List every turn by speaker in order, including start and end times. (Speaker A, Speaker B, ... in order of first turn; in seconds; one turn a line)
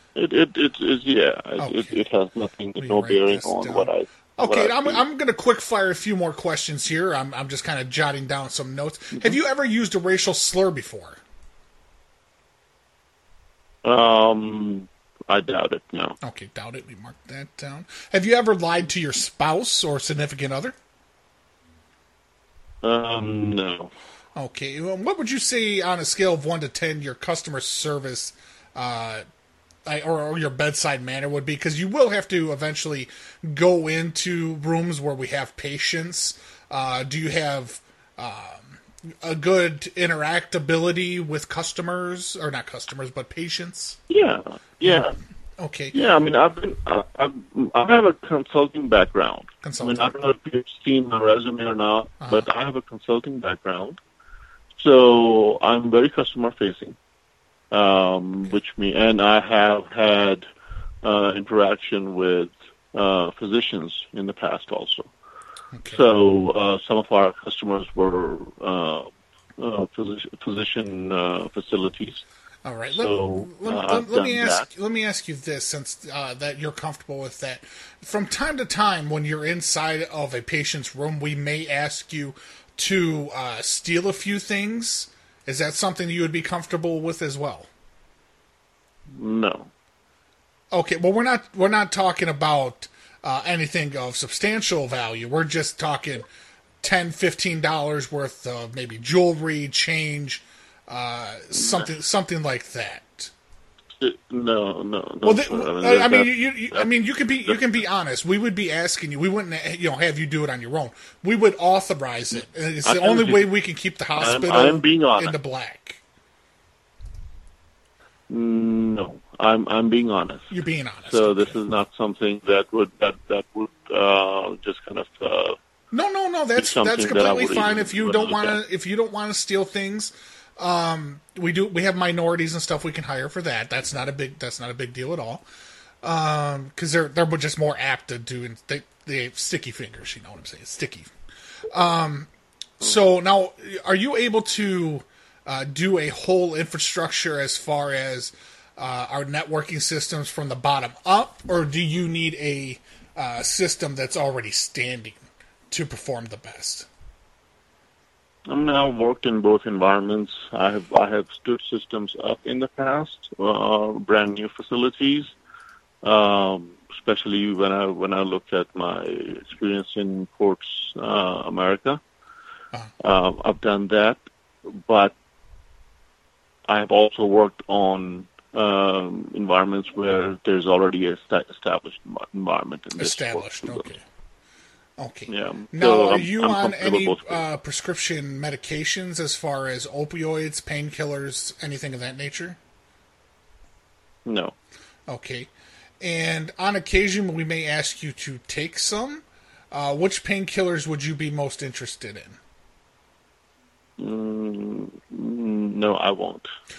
Speaker A: 0.1-5.0
Speaker B: 1.6-2.0
Speaker B: 2.8-11.2
Speaker A: 13.8-16.1
Speaker B: 16.2-20.7
Speaker A: 22.8-23.9
Speaker B: 24.4-29.2
Speaker B: 29.9-44.0
Speaker A: 44.1-45.1
Speaker B: 44.8-45.9
Speaker A: 45.9-54.0
Speaker B: 49.6-50.1
Speaker B: 52.2-52.5
Speaker A: 54.8-57.0
Speaker A: 57.7-60.5
Speaker A: 61.0-65.1
Speaker B: 65.7-66.0
Speaker A: 65.9-69.1
Speaker A: 69.6-72.2
Speaker B: 72.6-87.7
Speaker A: 72.9-74.7
Speaker A: 89.1-89.7
Speaker B: 90.7-96.3
Speaker B: 96.8-103.3
Speaker A: 101.5-101.9
Speaker A: 104.0-107.8
Speaker B: 105.2-116.0
Speaker A: 112.3-113.5
Speaker A: 114.2-115.4
Speaker A: 118.3-120.5
Speaker B: 120.5-121.5
Speaker A: 121.0-125.5
Speaker B: 125.9-135.4
Speaker A: 126.5-128.6
Speaker B: 136.0-141.1
Speaker B: 141.7-142.3
Speaker B: 142.8-156.9
Speaker A: 158.5-165.3
Speaker A: 166.0-172.0
Speaker A: 173.0-174.2
Speaker A: 174.8-175.1
Speaker A: 176.7-183.9
Speaker B: 183.0-184.0
Speaker B: 185.0-192.6
Speaker A: 185.3-187.4
Speaker A: 194.3-194.5
Speaker B: 195.1-195.5
Speaker B: 196.0-202.4
Speaker A: 204.0-206.5